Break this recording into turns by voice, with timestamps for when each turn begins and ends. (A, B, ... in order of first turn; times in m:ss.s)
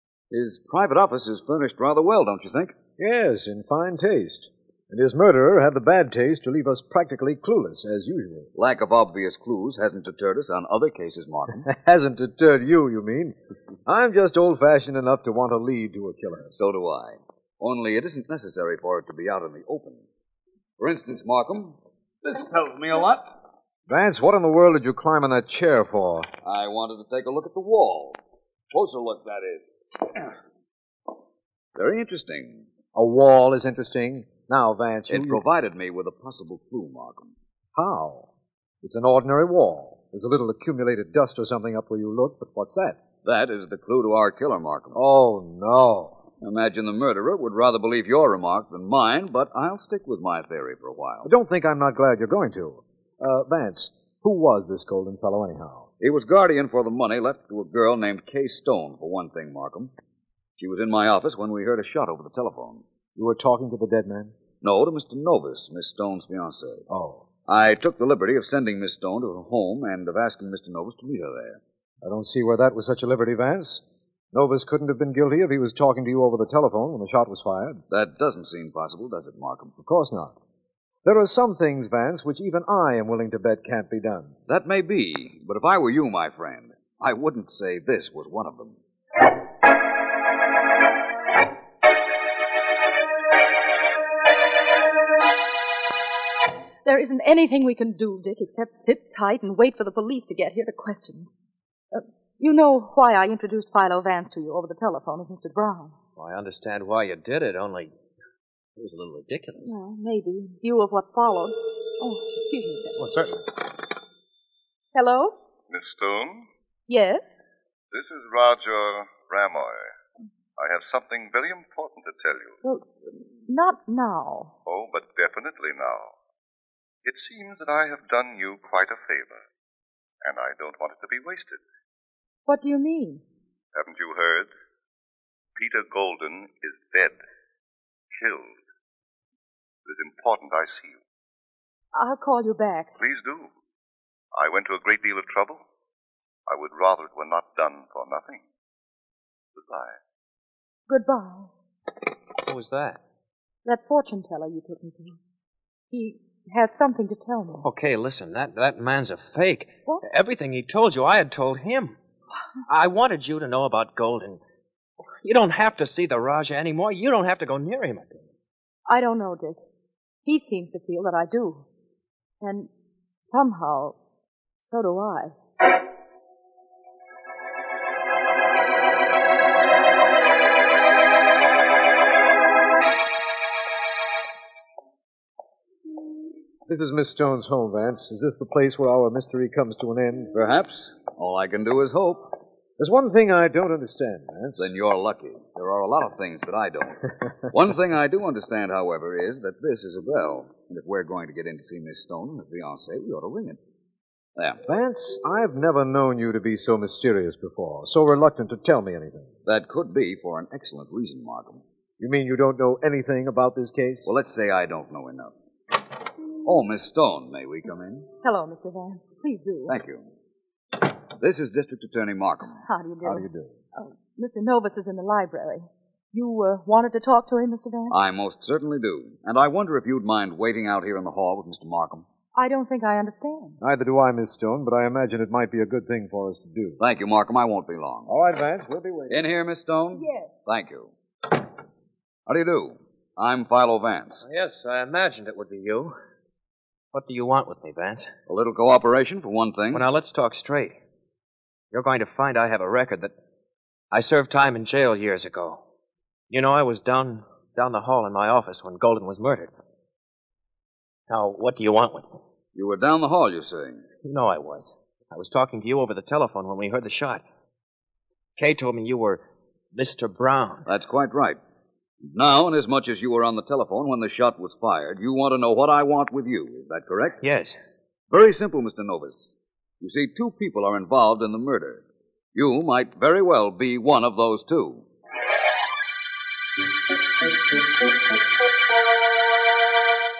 0:00.3-0:02.8 A
0:03.0-0:08.5 B
0:08.5-0:11.7 A
0:11.6-0:16.5 B
0:16.5-0:20.0 A
0:20.8-0:23.3 A
0:23.9-0:26.3 B
0:26.4-0:28.2 A
0:28.7-0:30.3 A
0:31.8-0:32.7 A
0:32.9-0:35.4 B
0:35.1-0:37.3 A
0:37.7-0:38.3 B
0:38.8-0:43.0 B
0:43.2-0:45.0 A
0:44.9-0:46.2 B
0:46.4-0:51.3 A
0:51.2-0:55.9 B
0:56.0-0:59.9 A
1:00.6-1:02.8 A
1:03.2-1:04.3 B
1:04.6-1:06.8 A
1:06.9-1:07.2 B
1:07.5-1:11.6 A
1:12.0-1:13.8 B
1:14.3-1:17.8 B
1:17.9-1:19.7 A
1:19.8-1:20.4 B
1:21.0-1:24.3 B
1:24.5-1:28.8 A
1:36.8-1:41.4 C
1:41.9-1:46.0 C
1:46.2-1:47.9 D
1:48.8-1:49.7 D
1:49.6-1:53.0 C
1:53.0-1:53.3 D
1:54.9-1:55.3 C
1:55.7-1:56.5 E
1:56.9-1:57.2 C
1:57.9-1:59.9 E
2:00.6-2:02.6 E
2:02.6-2:04.5 C
2:04.6-2:06.1 E
2:07.0-2:09.4 E
2:10.2-2:11.6 E
2:12.5-2:13.2 C
2:13.7-2:14.5 E
2:15.6-2:17.2 E
2:18.1-2:18.6 E
2:19.8-2:21.0 E
2:21.9-2:22.9 C
2:23.0-2:23.5 E
2:24.3-2:25.6 E
2:26.5-2:28.4 E
2:29.6-2:30.0 E
2:30.9-2:31.5 C
2:32.4-2:33.0 D
2:33.6-2:35.2 C
2:35.9-2:37.7 C
2:37.6-2:42.0 D
2:42.7-2:44.4 D
2:45.2-2:48.2 D
2:48.9-2:49.6 C
2:50.2-2:51.6 C
2:52.4-2:52.7 C
2:53.3-2:54.0 C
2:54.7-2:55.3 C
3:06.7-3:10.3 B
3:10.3-3:12.3 A
3:12.8-3:14.7 B
3:14.6-3:23.6 A
3:24.6-3:29.3 B
3:29.4-3:31.6 A
3:32.0-3:34.1 B
3:34.0-3:35.3 A
3:36.4-3:38.1 A
3:38.2-3:39.7 C
3:39.7-3:40.0 A
3:40.8-3:42.6 A
3:42.6-3:48.0 C
3:43.0-3:43.5 B
3:47.9-3:52.0 A
3:52.3-3:53.6 C
3:53.6-3:56.8 B
3:56.8-3:58.1 A
3:58.1-3:59.2 B
3:59.1-4:00.9 A
3:59.9-4:00.3 C
4:02.3-4:04.2 A
4:04.2-4:06.0 D
4:06.9-4:08.1 D
4:08.3-4:09.9 A
4:09.7-4:10.8 D
4:11.7-4:13.1 D
4:13.9-4:15.6 D
4:16.3-4:19.5 D
4:21.1-4:22.1 D
4:22.5-4:23.8 A
4:24.0-4:27.2 D
4:28.4-4:29.2 D
4:29.7-4:30.6 D
4:30.6-4:31.4 A
4:32.1-4:37.2 A
4:37.2-4:37.6 D
4:38.1-4:39.2 A
4:39.8-4:44.8 A